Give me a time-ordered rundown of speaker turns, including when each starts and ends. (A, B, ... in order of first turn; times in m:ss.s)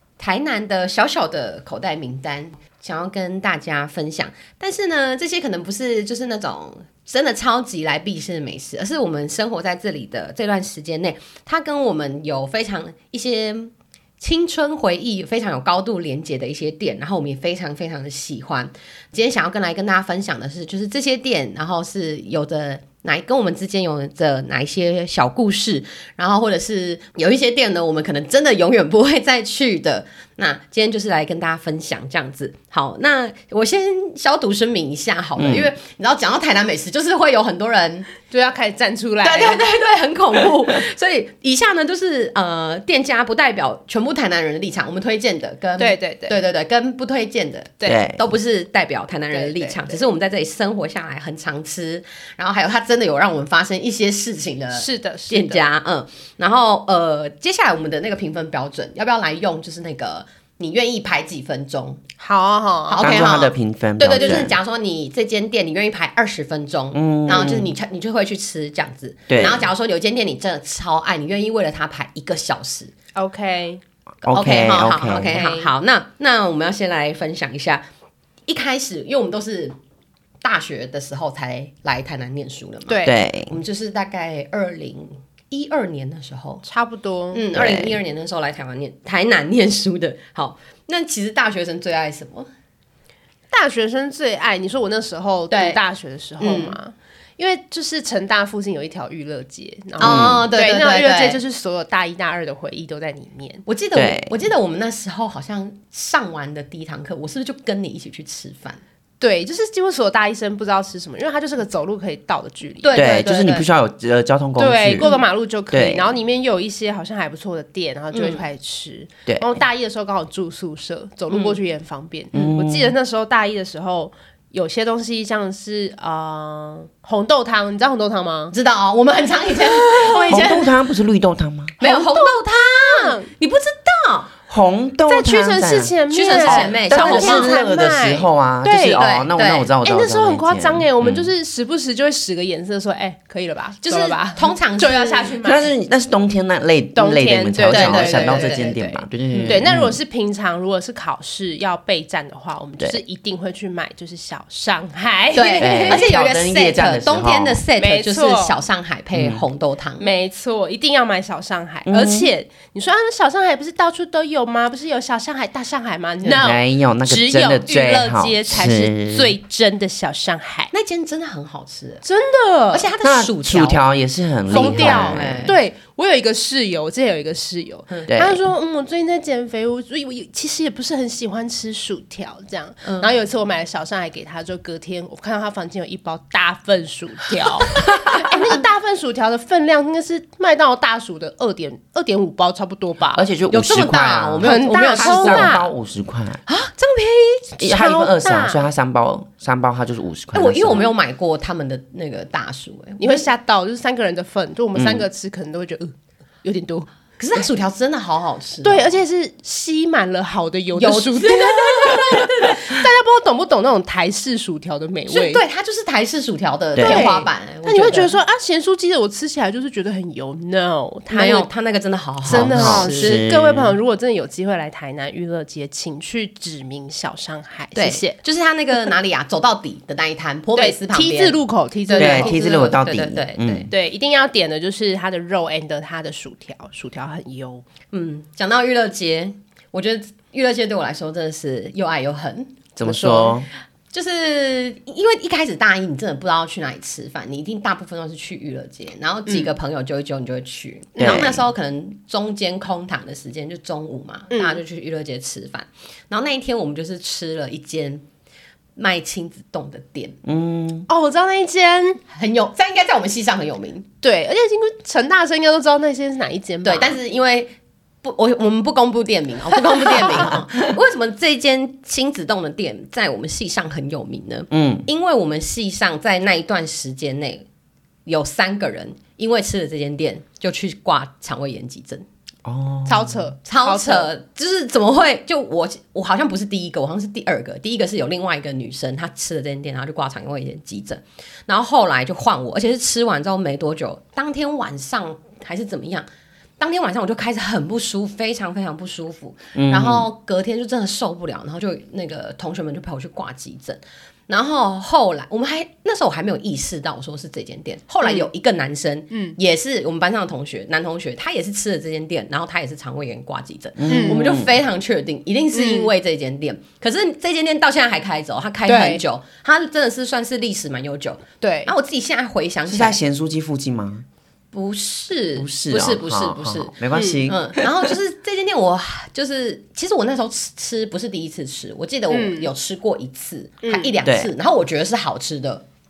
0:00.2-0:38.1 A
0:35.4-0:35.7 B
0:38.3-0:39.7 C
0:39.2-1:02.0 A
0:45.8-0:46.4 C
0:47.9-0:48.2 B
0:49.3-0:50.0 C
0:54.8-0:55.6 C
1:02.2-1:03.4 C
1:02.9-1:12.9 A
1:03.0-1:04.6 B
1:04.2-1:04.5 C
1:06.9-1:07.7 B
1:09.3-1:09.7 B
1:13.2-1:13.8 C
1:14.2-1:15.4 B
1:14.3-1:17.8 A
1:15.1-1:15.7 C
1:18.5-1:19.8 A
1:20.4-1:26.6 A
1:22.9-1:23.2 C
1:23.0-1:23.5 B
1:26.7-1:27.5 C
1:27.3-1:32.5 A
1:27.5-1:28.0 B
1:33.5-1:43.6 C
1:35.5-1:35.8 A
1:36.4-1:36.8 A
1:40.0-1:40.5 B
1:40.0-1:41.4 A
1:43.7-1:48.8 A
1:44.0-1:44.3 B
1:49.2-1:53.0 C
1:52.8-1:53.7 A
1:53.0-1:55.1 B
1:54.6-2:08.5 C
1:55.7-1:56.1 B
1:58.1-1:58.4 A
2:01.3-2:01.6 A
2:02.3-2:03.0 B
2:08.5-2:10.7 A
2:09.7-2:10.7 C
2:10.3-2:11.8 B
2:11.8-2:13.3 C
2:11.8-2:14.3 A
2:14.5-2:21.3 B
2:15.1-2:19.0 C
2:16.1-2:17.6 A
2:19.0-2:19.7 A
2:19.8-2:25.7 C
2:23.8-2:25.5 A
2:25.4-2:30.0 B
2:27.0-2:36.1 C
2:27.7-2:28.7 A
2:29.3-2:29.6 A
2:35.3-2:40.1 A
2:35.6-2:37.6 B
2:37.8-2:38.6 C
2:39.2-2:39.4 B
2:40.0-2:50.7 C
2:41.9-2:42.3 B
2:46.2-2:49.4 B
2:50.7-2:52.0 A
2:52.0-2:52.9 C
2:52.7-2:53.8 A
2:53.0-2:55.5 B
2:54.5-2:55.6 A
2:54.5-3:13.3 C
2:58.1-2:58.4 B
3:02.8-3:03.1 A
3:13.2-3:16.4 B
3:13.5-3:15.6 A
3:14.4-3:15.7 C
3:16.5-3:17.6 A
3:17.6-3:20.9 B
3:17.6-3:18.6 C
3:20.3-3:23.3 A
3:23.0-3:25.9 C
3:24.8-3:25.0 B
3:26.4-3:26.9 C
3:27.2-3:29.0 A
3:28.6-3:35.4 C
3:30.8-3:32.8 A
3:35.1-3:38.2 A
3:36.7-3:37.0 B
3:36.8-3:41.5 C
3:41.1-3:43.2 A
3:42.2-3:48.2 C
3:42.3-3:43.8 B
3:47.8-3:53.7 A
3:50.6-3:52.8 C
3:52.0-3:53.7 B
3:53.7-3:57.6 C
3:57.9-4:02.6 A
4:02.8-4:03.5 B
4:02.8-4:03.4 C
4:03.9-4:18.0 A
4:09.3-4:09.5 C
4:11.0-4:11.4 B
4:11.0-4:11.3 C
4:14.3-4:14.6 C
4:18.8-4:20.2 A
4:20.2-4:20.9 B
4:20.9-4:22.0 C
4:22.1-4:23.9 A
4:24.0-4:27.0 C
4:26.6-4:37.5 A
4:29.8-4:30.3 C
4:34.5-4:34.9 B
4:38.1-4:42.1 A
4:42.4-4:43.2 B
4:42.9-4:44.1 C
4:43.5-4:56.1 A
4:56.6-5:23.0 A
4:59.6-5:00.1 B
5:09.1-5:09.4 C
5:13.8-5:14.5 B
5:13.9-5:14.2 C
5:15.5-5:15.9 C
5:18.7-5:19.0 C
5:21.4-5:21.7 C
5:22.7-5:24.0 B
5:24.5-5:26.7 A
5:25.4-5:27.7 B
5:26.9-5:27.3 C
5:27.2-5:35.6 A
5:32.1-5:32.5 C
5:33.6-5:33.9 C
5:34.1-5:34.3 B